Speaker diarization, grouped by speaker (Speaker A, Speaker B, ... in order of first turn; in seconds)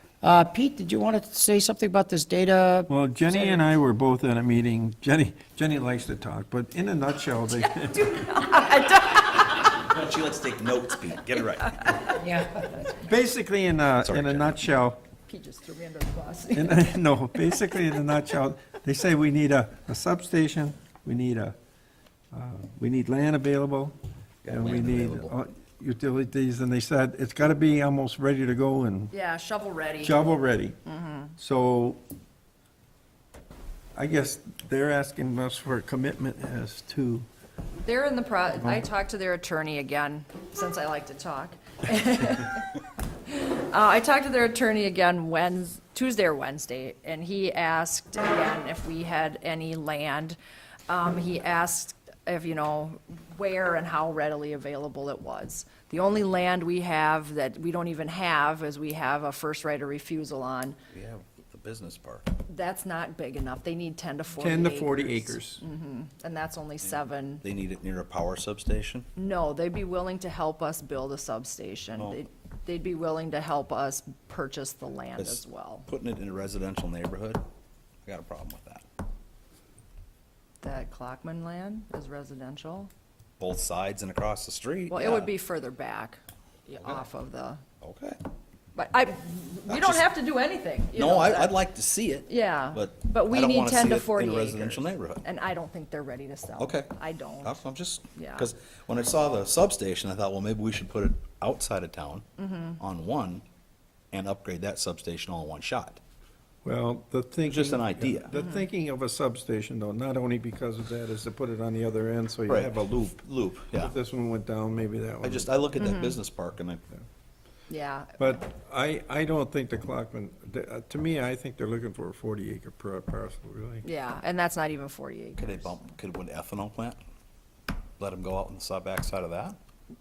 Speaker A: 0.2-3.6, 12.2-12.8
Speaker B: 2.9-8.1, 13.0-15.0, 16.5-21.6, 22.3-23.9, 24.5-29.1, 30.0-30.8, 31.4-32.0, 34.0-37.3, 64.4-65.6, 106.6-115.5, 118.2-123.8
Speaker C: 7.5-9.7, 15.3-16.9, 29.1-30.2, 30.9-31.3, 37.8-42.7, 43.3-50.4, 50.9-60.8, 62.5-67.5, 69.2-75.9, 80.6-82.9, 84.9-87.6, 88.8-91.5, 92.3-97.6, 98.2-98.5, 102.4-102.8, 108.4-108.7, 115.8-116.2, 117.7-118.4, 123.8-125.7
Speaker D: 9.5-12.2, 14.0-14.6, 24.4-25.3, 60.9-62.3, 66.8-69.1, 75.2-77.4, 78.1-78.8, 83.4-85.3, 87.8-88.2, 89.7-90.1, 90.9-95.2, 96.6-96.9, 97.4-102.2, 102.8-103.4, 104.1-106.0, 107.5-108.3, 112.5-113.9, 115.2-116.8, 125.4-127.0, 128.0-129.6